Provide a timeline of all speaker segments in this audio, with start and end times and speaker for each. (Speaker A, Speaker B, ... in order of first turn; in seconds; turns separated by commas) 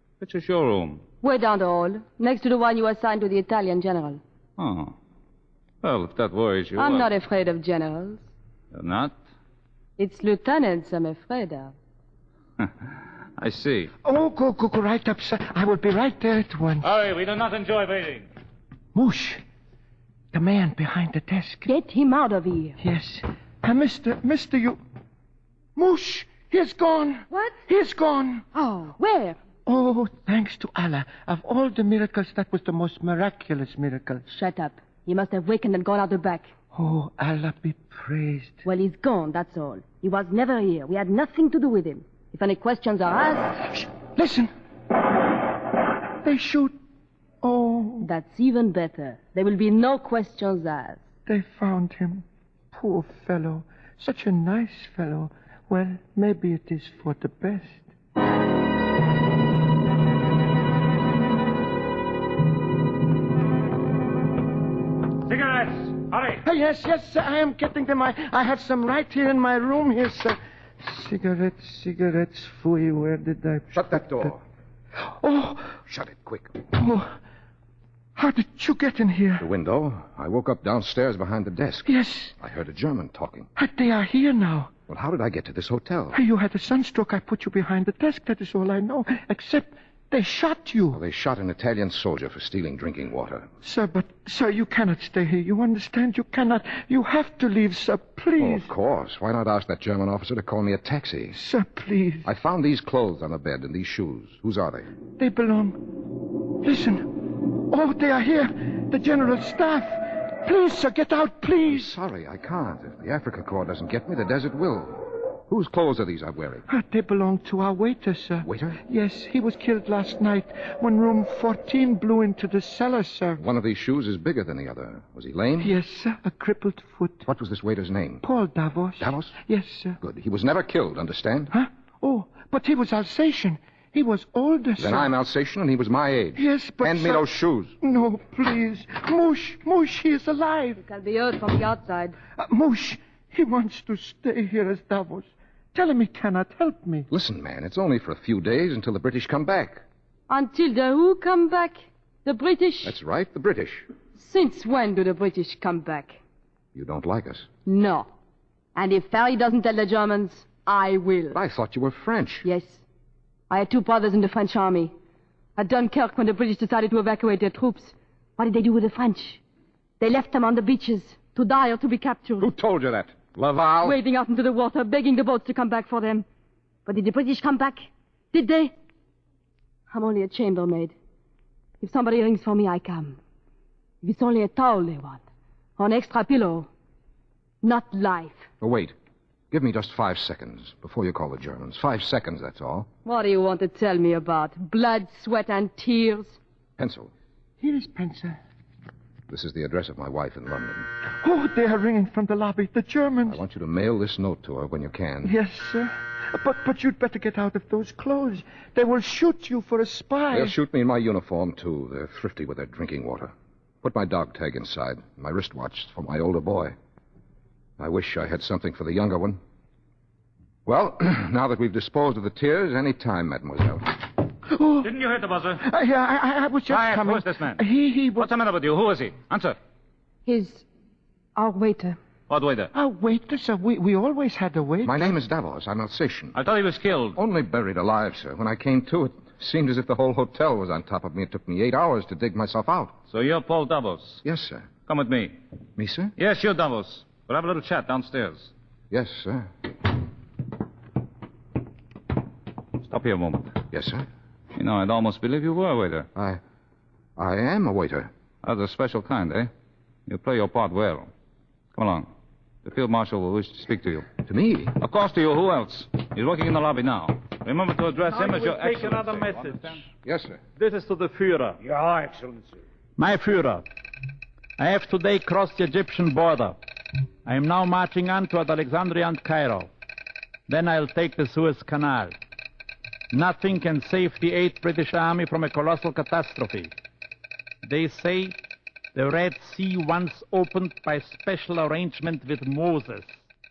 Speaker A: 0.2-1.0, Speaker B: 1.2-4.2, Speaker A: 4.6-4.9, Speaker A: 5.8-7.1, Speaker B: 6.8-8.2, Speaker A: 8.7-9.2, Speaker B: 10.0-11.7, Speaker A: 13.4-13.9, Speaker C: 14.0-16.9, Speaker A: 16.8-18.3, Speaker C: 18.9-19.4, Speaker C: 20.3-21.7, Speaker B: 21.6-22.8, Speaker C: 22.8-24.8, Speaker C: 25.8-28.4, Speaker B: 27.3-27.6, Speaker B: 28.6-29.4, Speaker C: 29.6-34.2, Speaker B: 34.3-36.5, Speaker C: 36.7-38.6, Speaker B: 38.6-43.6, Speaker C: 43.7-44.5, Speaker C: 46.2-46.7, Speaker C: 47.4-48.1, Speaker B: 48.0-51.0, Speaker C: 51.3-57.9, Speaker A: 65.2-66.4, Speaker C: 66.4-74.3, Speaker D: 73.7-74.4, Speaker C: 75.1-75.7, Speaker D: 75.8-76.6, Speaker C: 76.7-77.2, Speaker C: 78.2-79.4, Speaker D: 79.4-83.5, Speaker C: 81.8-82.3, Speaker C: 83.6-84.7, Speaker D: 84.9-86.2, Speaker C: 86.1-91.0, Speaker D: 90.9-93.5, Speaker C: 93.6-98.7, Speaker D: 98.4-101.4, Speaker C: 101.3-102.3, Speaker D: 102.2-104.9, Speaker C: 105.2-105.9, Speaker C: 106.6-111.9, Speaker D: 111.7-116.6, Speaker C: 116.7-123.4, Speaker D: 118.4-118.8, Speaker D: 123.4-125.8, Speaker C: 125.6-127.2, Speaker D: 127.3-128.2, Speaker C: 128.2-130.0, Speaker D: 129.0-129.3, Speaker D: 130.0-131.5, Speaker C: 131.5-135.1, Speaker D: 134.8-137.8, Speaker C: 136.4-137.2, Speaker C: 137.8-140.8, Speaker B: 140.8-142.2, Speaker C: 142.4-147.1, Speaker D: 147.1-149.8, Speaker B: 150.3-153.0, Speaker D: 152.8-153.9, Speaker B: 154.1-156.2, Speaker D: 156.8-157.5, Speaker B: 157.7-158.1, Speaker B: 158.8-161.4, Speaker D: 161.3-162.4, Speaker B: 162.4-162.8, Speaker B: 163.5-164.9, Speaker B: 165.6-169.4, Speaker B: 170.0-172.5, Speaker D: 172.4-174.0, Speaker B: 173.8-176.2, Speaker B: 176.8-178.7, Speaker B: 179.9-180.9, Speaker B: 181.8-183.2, Speaker B: 184.0-185.2, Speaker B: 185.8-186.7, Speaker B: 187.6-188.4, Speaker D: 188.6-188.9, Speaker D: 189.5-192.9, Speaker B: 193.1-196.4, Speaker D: 196.8-197.1, Speaker C: 197.6-198.4, Speaker D: 199.3-200.9, Speaker C: 201.2-203.4, Speaker D: 203.3-205.3, Speaker C: 205.2-210.6, Speaker D: 210.3-216.7, Speaker D: 217.8-219.4, Speaker D: 220.7-224.1, Speaker C: 224.4-224.9, Speaker A: 224.8-225.7, Speaker C: 225.6-228.3, Speaker A: 226.7-227.6, Speaker A: 228.2-229.6, Speaker B: 230.2-230.7, Speaker B: 231.3-232.0, Speaker A: 232.3-232.7, Speaker C: 232.7-235.2, Speaker D: 234.8-236.3, Speaker A: 236.3-237.2, Speaker D: 237.2-242.9, Speaker A: 243.1-244.2, Speaker D: 244.2-244.7, Speaker A: 244.8-245.3, Speaker D: 245.8-246.1, Speaker A: 246.2-248.5, Speaker D: 248.9-249.5, Speaker A: 252.8-253.6, Speaker D: 253.7-254.1, Speaker A: 254.6-256.1, Speaker D: 256.1-256.4, Speaker D: 257.2-258.1, Speaker A: 258.4-259.5, Speaker A: 260.1-261.1, Speaker A: 261.7-262.1, Speaker A: 262.6-264.1, Speaker D: 264.2-264.8, Speaker A: 264.8-269.8, Speaker E: 268.1-269.7, Speaker D: 270.1-270.4, Speaker E: 270.6-271.6, Speaker A: 271.6-272.6, Speaker E: 273.0-273.6, Speaker E: 274.6-276.6, Speaker E: 277.2-279.7, Speaker E: 280.5-282.1, Speaker E: 283.1-286.7, Speaker E: 287.6-288.4, Speaker E: 288.9-293.2